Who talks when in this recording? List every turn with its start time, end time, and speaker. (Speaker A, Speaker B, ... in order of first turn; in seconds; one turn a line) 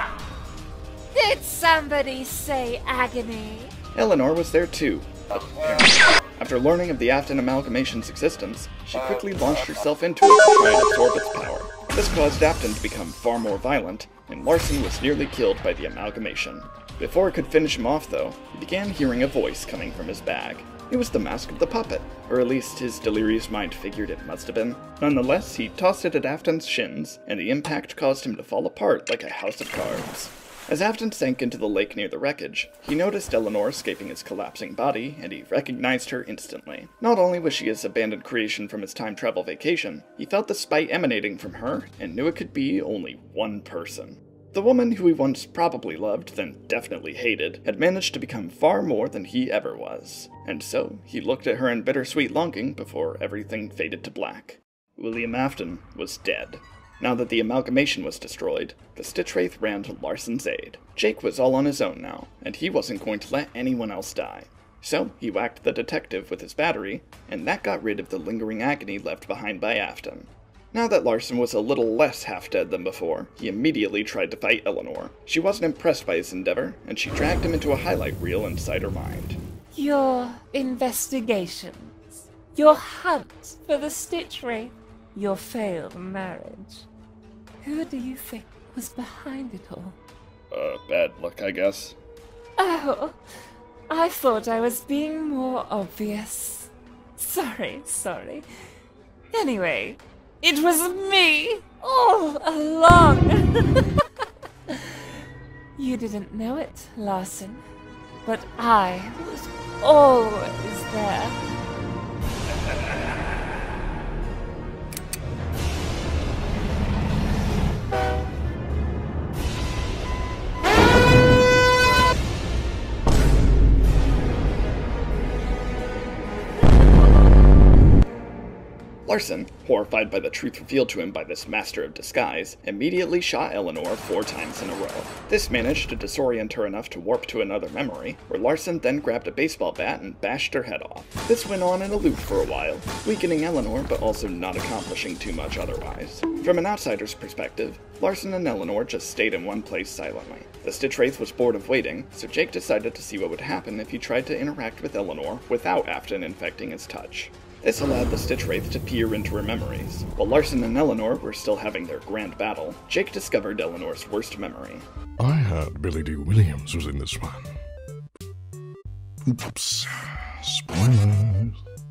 Speaker A: 1.1-3.8
Speaker B: 3.9-79.4
Speaker A: 79.8-86.9
Speaker A: 87.6-90.0
Speaker B: 90.5-92.0
Speaker A: 92.6-93.2
Speaker A: 93.9-98.5
Speaker A: 99.3-104.0
Speaker A: 104.7-104.9
Speaker A: 105.8-107.6
Speaker A: 108.2-111.4
Speaker B: 129.1-164.9
Speaker C: 165.2-167.5
Speaker C: 169.3-171.6